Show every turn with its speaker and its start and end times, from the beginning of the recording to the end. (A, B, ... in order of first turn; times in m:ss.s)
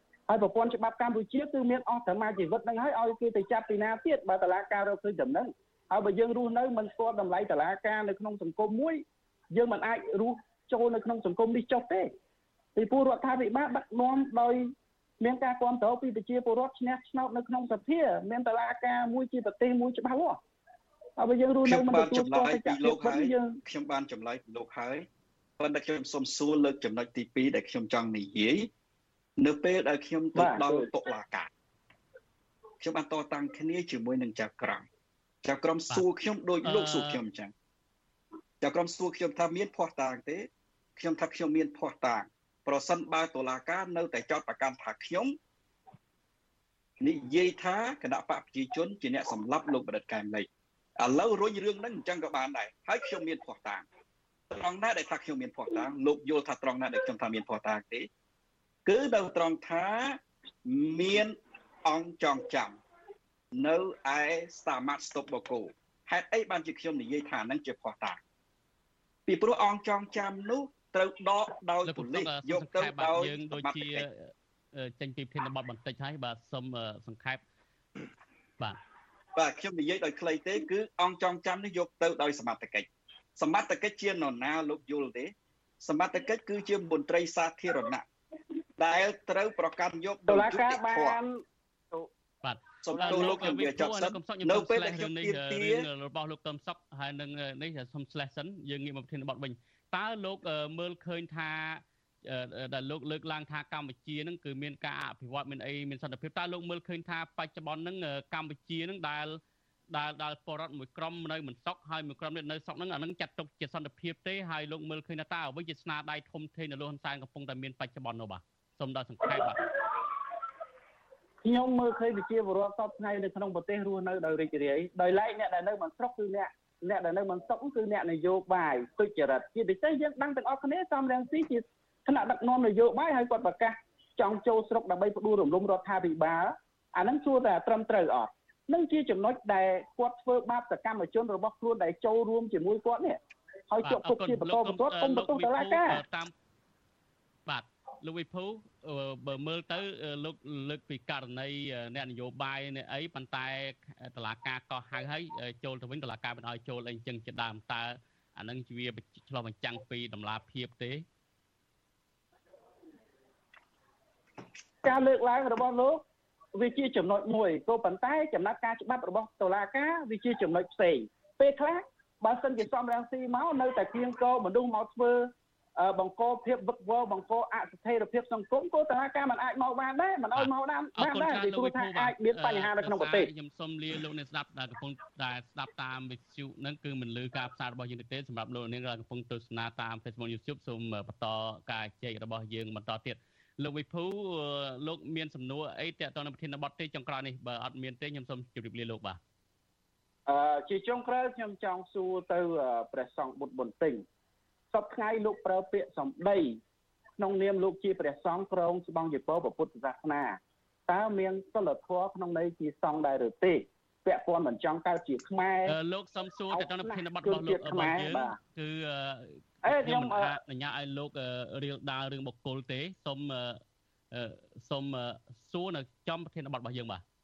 0:00.3-0:12.1 A
0:12.8-0:20.4 A
0:21.2-0:23.6 A
0:21.6-0:25.1 B
0:25.6-0:28.7 B
0:29.4-0:31.5 B
0:30.3-0:30.9 A
0:32.8-0:34.9 B
0:35.4-0:37.5 B
0:36.6-0:37.2 C
0:38.6-0:45.4 B
0:47.0-0:50.5 B
0:51.0-0:53.9 B
0:54.5-0:58.1 B
0:58.9-1:02.8 B
1:03.5-1:08.2 B
1:09.3-1:14.0 B
1:11.9-1:17.4 C
1:19.4-1:28.0 B
1:28.8-1:31.2 B
1:30.3-1:31.3 A
1:32.4-1:59.6 C
1:32.8-1:35.9 B
1:32.9-1:33.7 A
2:01.4-2:23.2 A
2:23.7-2:26.0 A
2:23.9-2:26.3 C
2:27.4-2:41.0 C
2:44.8-2:46.0 A
2:46.5-3:03.3 A
3:00.3-3:19.2 C
3:20.3-3:24.0 A
3:24.7-3:26.6 A
3:27.2-3:35.7 A
3:35.7-3:43.6 C
3:36.5-3:38.4 A
3:39.6-3:40.4 A
3:44.1-3:47.0 C